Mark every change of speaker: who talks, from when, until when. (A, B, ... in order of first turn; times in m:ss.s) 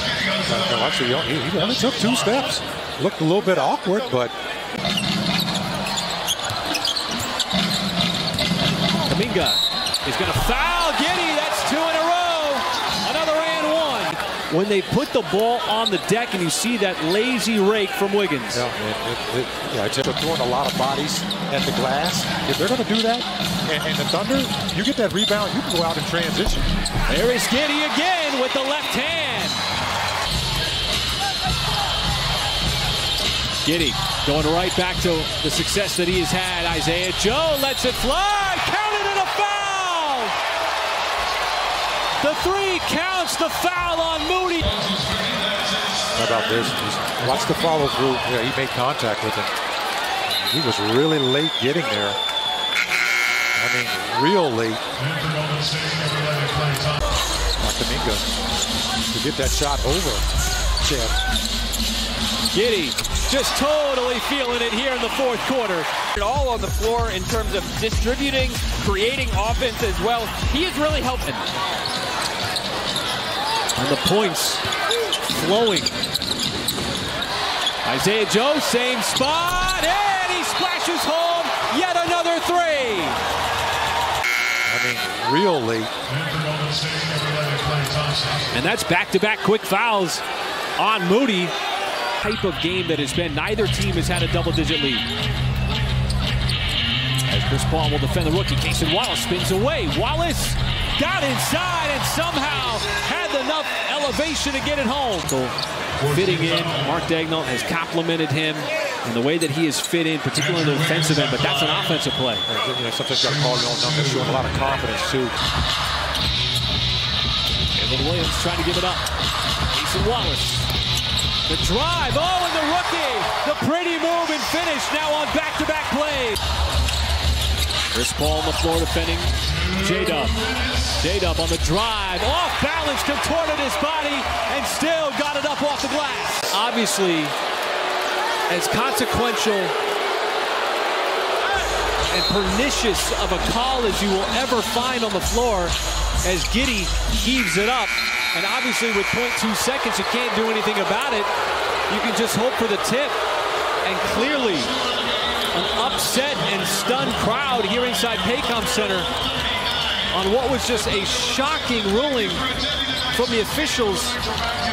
0:00.4-0:04.3 A
0:09.1-0:18.6 B
0:18.5-0:26.7 A
0:27.1-0:29.6 B
0:33.6-0:40.4 B
0:42.2-0:44.8 B
0:46.1-0:49.5 A
0:50.2-0:52.2 A
0:53.6-0:54.8 A
0:55.1-0:57.0 B
0:57.6-0:58.2 A
0:59.1-1:00.2 A
1:00.8-1:01.2 A
1:02.5-1:06.0 B
1:06.1-1:11.5 C
1:13.8-1:14.6 B
1:15.3-1:15.9 B
1:17.8-1:23.2 B
1:24.6-1:25.9 A
1:26.2-1:30.2 B
1:30.8-1:31.5 B
1:32.2-1:35.0 B
1:37.3-1:52.5 B
1:52.5-1:55.3 A
1:57.7-1:59.0 B
1:59.6-2:00.7 B
2:01.4-2:06.4 B
2:07.9-2:10.4 B
2:10.9-2:17.3 B
2:18.5-2:19.7 B
2:22.1-2:31.3 B
2:31.9-2:33.2 B
2:33.8-2:34.7 B
2:35.5-2:39.1 B
2:40.1-2:42.5 B
2:43.1-2:44.2 B